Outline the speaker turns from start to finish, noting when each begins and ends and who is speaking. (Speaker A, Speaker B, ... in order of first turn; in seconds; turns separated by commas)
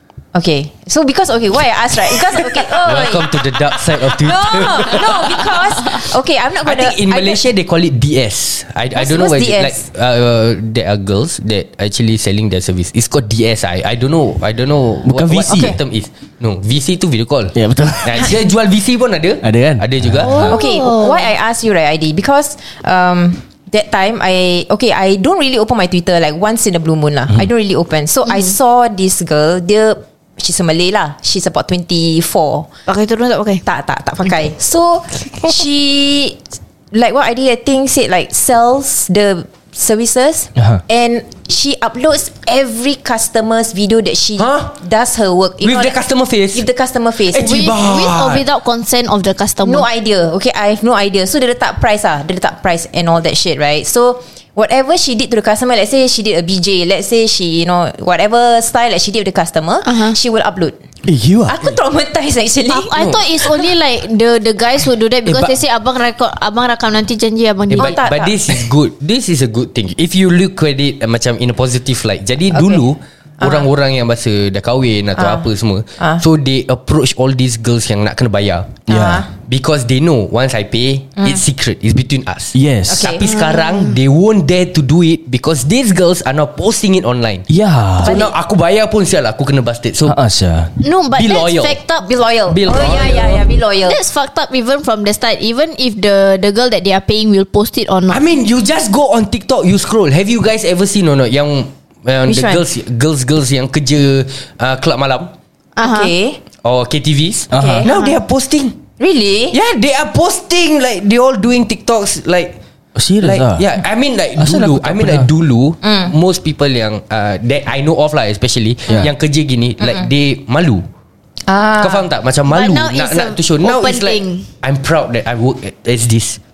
Speaker A: 0.3-7.4, Speaker B: 2.7-6.0, Speaker B: 6.6-20.6, Speaker A: 8.9-9.8, Speaker C: 15.1-15.8, Speaker A: 15.5-15.8, Speaker C: 17.6-18.4, Speaker C: 19.4-20.5, Speaker D: 20.2-21.3, Speaker A: 20.4-32.7, Speaker D: 32.9-33.6, Speaker A: 33.6-46.0, Speaker B: 44.4-44.7, Speaker B: 45.6-46.7, Speaker A: 46.5-47.7, Speaker B: 47.3-48.4, Speaker D: 47.4-49.9, Speaker A: 49.6-60.8, Speaker D: 59.8-60.1, Speaker C: 61.1-61.6, Speaker A: 61.5-63.0, Speaker D: 62.7-68.0, Speaker B: 63.0-63.4, Speaker B: 65.3-65.6, Speaker A: 67.7-68.4, Speaker B: 67.7-87.5, Speaker A: 72.5-72.9, Speaker A: 73.4-73.7, Speaker A: 75.2-75.5, Speaker C: 78.9-79.2, Speaker A: 78.9-79.3, Speaker C: 82.5-83.1, Speaker A: 82.9-83.3, Speaker D: 83.2-84.0, Speaker C: 87.5-88.1, Speaker B: 88.0-90.2, Speaker A: 88.0-88.3, Speaker C: 90.0-90.7, Speaker D: 90.8-92.1, Speaker B: 91.2-91.8, Speaker A: 92.0-94.0, Speaker B: 92.5-93.4, Speaker D: 93.9-98.2, Speaker B: 98.1-105.3, Speaker A: 102.3-102.6, Speaker D: 105.8-106.1, Speaker A: 105.8-106.4, Speaker B: 106.6-108.8, Speaker C: 107.5-107.9, Speaker A: 107.5-108.1, Speaker A: 109.0-109.6, Speaker B: 109.5-112.6, Speaker C: 113.0-113.7, Speaker B: 113.2-120.8, Speaker C: 114.4-115.3, Speaker A: 115.8-116.1, Speaker A: 121.5-122.1, Speaker B: 121.8-126.4, Speaker D: 122.5-124.5